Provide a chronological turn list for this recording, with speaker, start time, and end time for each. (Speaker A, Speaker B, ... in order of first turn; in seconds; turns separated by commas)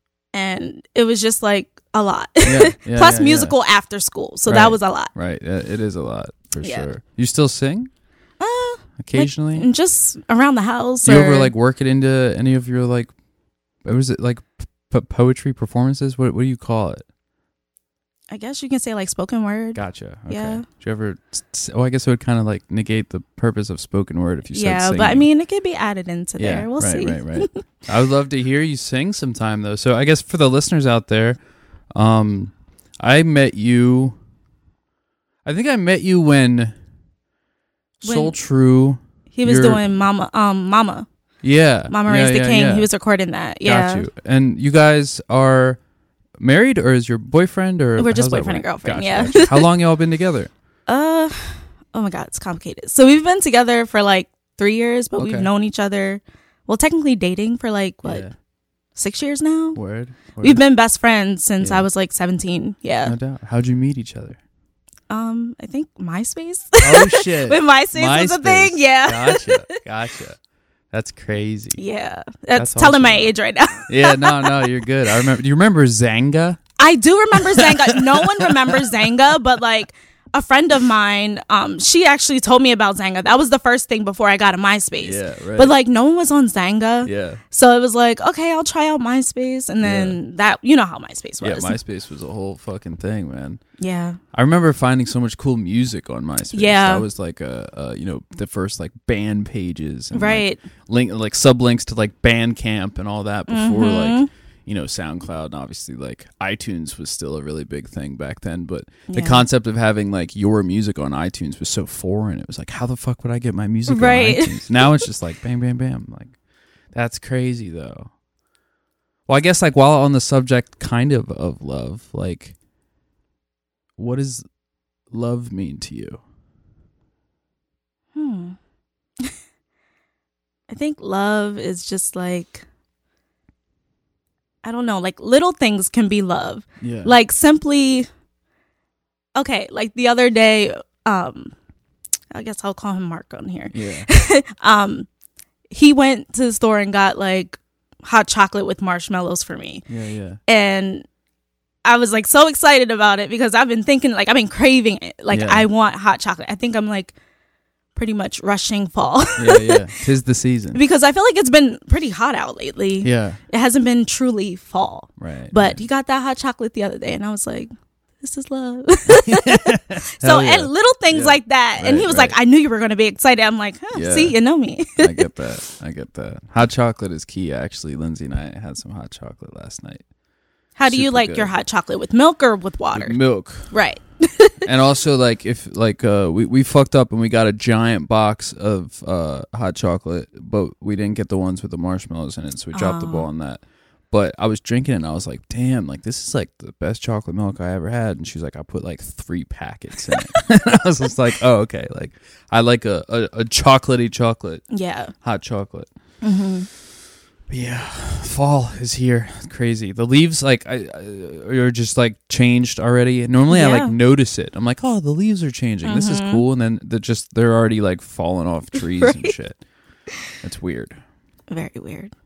Speaker A: 0.3-5.1, Speaker B: 2.4-3.5, Speaker B: 4.5-7.9, Speaker A: 6.6-6.9, Speaker A: 8.4-11.5, Speaker B: 9.0-9.7, Speaker B: 11.1-13.1, Speaker B: 13.8-17.1, Speaker A: 18.3-20.6, Speaker B: 19.8-25.3, Speaker A: 24.5-27.5, Speaker B: 26.4-34.2, Speaker B: 35.5-36.8, Speaker B: 38.0-39.8, Speaker A: 38.0-38.4, Speaker A: 39.3-41.1, Speaker B: 41.4-42.9, Speaker A: 41.9-44.1, Speaker B: 43.6-45.8, Speaker B: 46.4-50.5, Speaker A: 48.0-49.6, Speaker A: 50.9-58.3, Speaker B: 55.2-55.5, Speaker B: 58.0-58.3, Speaker A: 59.0-59.8, Speaker B: 59.8-60.6, Speaker A: 60.4-63.1, Speaker B: 61.6-61.9, Speaker B: 63.0-64.4, Speaker A: 65.1-69.7, Speaker B: 66.8-70.4, Speaker B: 70.9-71.8, Speaker A: 71.8-74.7, Speaker B: 72.6-73.3, Speaker B: 73.9-76.6, Speaker A: 76.8-91.8, Speaker B: 77.5-78.8, Speaker B: 85.0-85.7, Speaker B: 87.0-87.4, Speaker B: 89.8-90.2, Speaker B: 91.4-93.6, Speaker A: 93.8-94.2, Speaker B: 94.3-116.3, Speaker A: 96.5-97.1, Speaker A: 100.1-100.6, Speaker A: 103.5-104.3, Speaker A: 109.1-109.5, Speaker A: 113.9-114.9, Speaker B: 116.9-118.1, Speaker B: 119.3-122.6, Speaker B: 124.0-124.5, Speaker B: 125.1-126.2, Speaker A: 128.1-128.6, Speaker A: 130.7-132.7, Speaker A: 134.6-138.1, Speaker B: 136.8-137.2, Speaker A: 139.4-141.5, Speaker A: 142.3-145.1, Speaker B: 143.7-144.1, Speaker A: 145.7-149.9, Speaker B: 149.9-150.4, Speaker A: 150.5-151.1, Speaker A: 151.8-157.2, Speaker B: 155.3-155.7, Speaker A: 157.9-159.9, Speaker B: 159.4-160.8, Speaker A: 160.7-175.3, Speaker B: 163.0-163.4, Speaker B: 165.2-165.8, Speaker B: 169.1-172.4, Speaker B: 173.9-174.4, Speaker B: 174.9-180.1, Speaker A: 180.8-184.7, Speaker B: 180.9-181.5, Speaker B: 182.9-183.8, Speaker B: 184.6-204.7, Speaker A: 192.7-193.3, Speaker A: 204.7-205.1, Speaker B: 205.2-205.9, Speaker A: 206.2-206.7, Speaker B: 207.5-219.7, Speaker A: 213.5-213.9, Speaker A: 215.8-216.4, Speaker A: 218.9-219.4, Speaker B: 220.4-221.0, Speaker A: 221.5-222.1